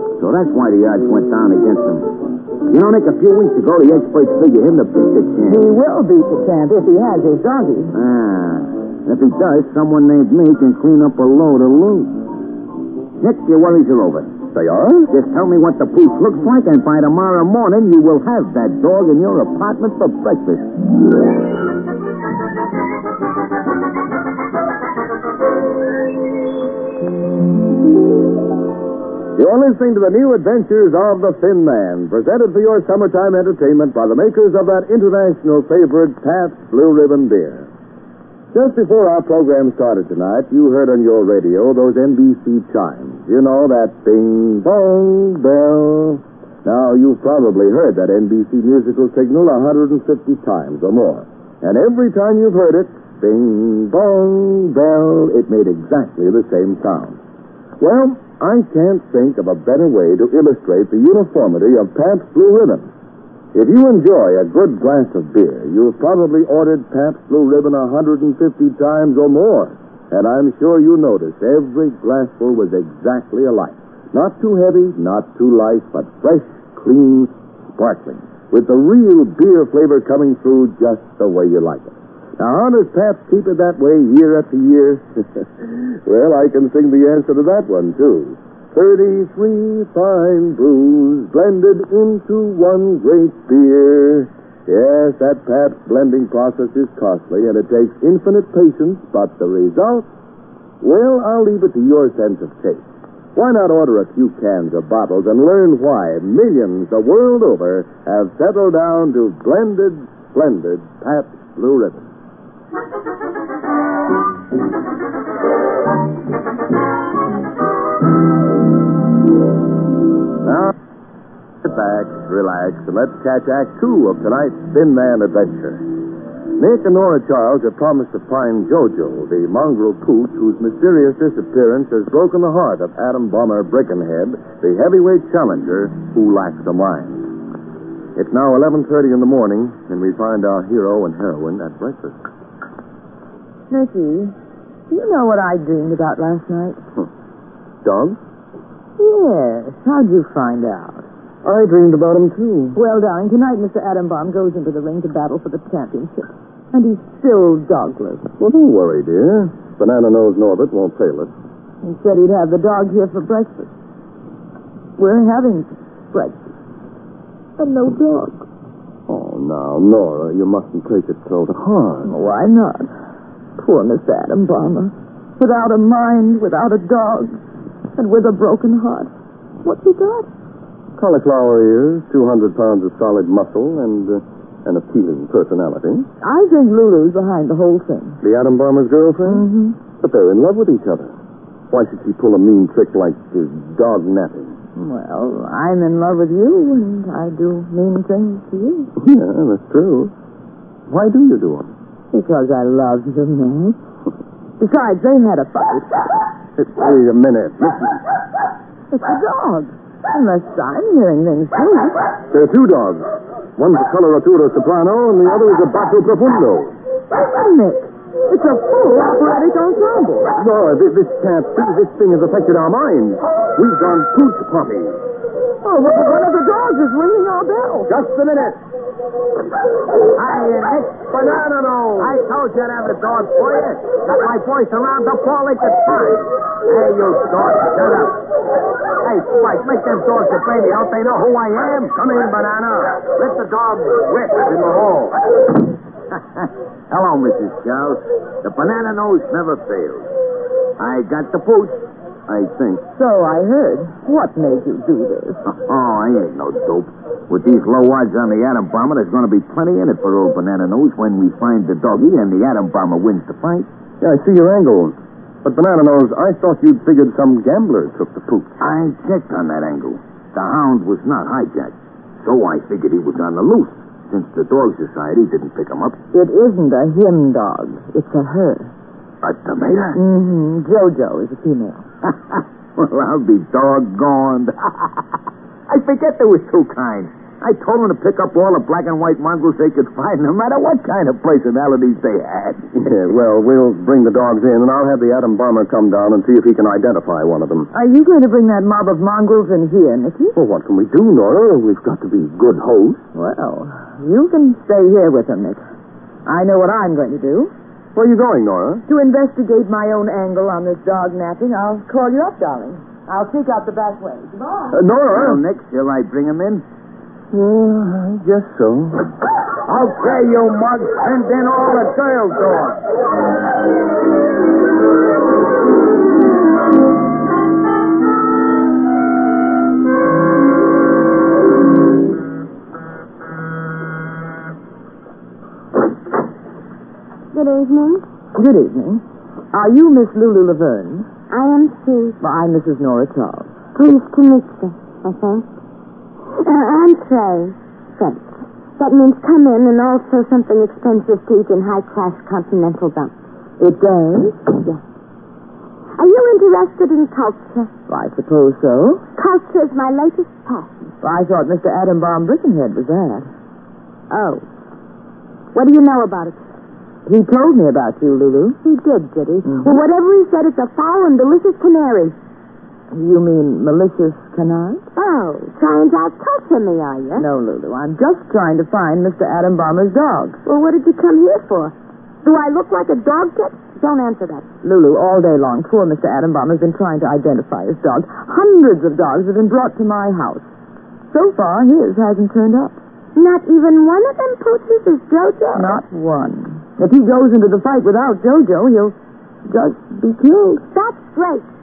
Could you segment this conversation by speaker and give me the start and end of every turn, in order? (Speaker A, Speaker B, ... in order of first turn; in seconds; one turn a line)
Speaker A: 0.2-5.7
Speaker B: 5.5-7.9
Speaker A: 7.9-12.2
Speaker A: 13.2-14.4
Speaker C: 14.5-15.1
Speaker A: 15.1-20.6
Speaker C: 29.4-37.7
Speaker C: 38.5-57.2
Speaker C: 57.8-62.9
Speaker C: 63.5-100.1
Speaker C: 100.8-102.8
Speaker C: 103.3-112.1
Speaker C: 120.4-120.7
Speaker C: 121.6-125.9
Speaker C: 126.6-137.3
Speaker C: 138.2-142.2
Speaker B: 143.7-144.3
Speaker B: 144.9-146.8
Speaker C: 147.8-148.2
Speaker B: 149.0-151.1
Speaker C: 151.4-152.8
Speaker B: 152.8-158.3
Speaker C: 158.4-161.3
Speaker B: 161.8-163.7
Speaker B: 165.0-166.4
Speaker B: 167.6-168.5
Speaker C: 169.1-172.1
Speaker B: 172.1-172.9
Speaker B: 173.6-177.4
Speaker B: 177.9-179.1
Speaker B: 179.6-180.3
Speaker C: 181.0-186.1
Speaker B: 186.2-188.2
Speaker C: 188.2-191.2
Speaker B: 189.2-189.8
Speaker C: 191.7-194.6
Speaker B: 194.8-198.9
Speaker C: 199.0-200.1
Speaker C: 200.9-201.7
Speaker B: 202.1-203.8
Speaker B: 204.6-206.1
Speaker C: 206.6-208.0
Speaker B: 208.9-212.1
Speaker C: 212.3-213.1
Speaker C: 213.6-216.8
Speaker B: 217.1-220.3
Speaker C: 220.4-225.0
Speaker B: 225.6-227.9
Speaker C: 227.9-228.6
Speaker A: 230.2-231.1
Speaker C: 231.1-232.1
Speaker A: 232.0-238.2
Speaker A: 239.0-242.4
Speaker C: 242.0-242.8
Speaker A: 242.9-244.6
Speaker C: 244.7-244.9
Speaker A: 246.1-250.1
Speaker A: 250.8-252.8
Speaker B: 252.9-255.4
Speaker A: 255.5-263.7
Speaker C: 264.0-268.6
Speaker A: 268.6-276.0
Speaker B: 276.1-278.7
Speaker A: 279.2-280.0
Speaker B: 279.9-281.9
Speaker A: 282.3-285.1
Speaker A: 285.7-292.6
Speaker C: 292.7-297.7
Speaker B: 297.7-300.4
Speaker C: 300.4-303.0
Speaker B: 303.1-305.6
Speaker B: 306.3-307.5
Speaker C: 307.9-308.9
Speaker B: 308.9-314.8
Speaker C: 314.7-315.4
Speaker A: 315.1-316.6
Speaker C: 317.3-319.1
Speaker A: 319.7-322.8
Speaker D: 337.3-338.1
Speaker B: 338.4-341.1
Speaker D: 341.3-342.2
Speaker B: 342.2-343.5
Speaker D: 343.8-345.5
Speaker D: 346.4-353.1
Speaker B: 353.6-354.5
Speaker D: 356.0-357.7
Speaker B: 357.9-359.1
Speaker D: 359.2-360.7
Speaker B: 361.0-363.3
Speaker D: 364.1-364.5
Speaker D: 365.5-366.4
Speaker B: 367.1-368.6
Speaker D: 368.6-372.2
Speaker B: 369.4-369.8
Speaker B: 372.9-374.9
Speaker D: 374.9-377.3
Speaker B: 377.2-380.4
Speaker D: 380.4-384.5
Speaker B: 384.6-390.5
Speaker B: 391.1-392.8
Speaker D: 393.1-395.8
Speaker B: 395.5-398.9
Speaker B: 399.5-400.6
Speaker D: 400.7-401.5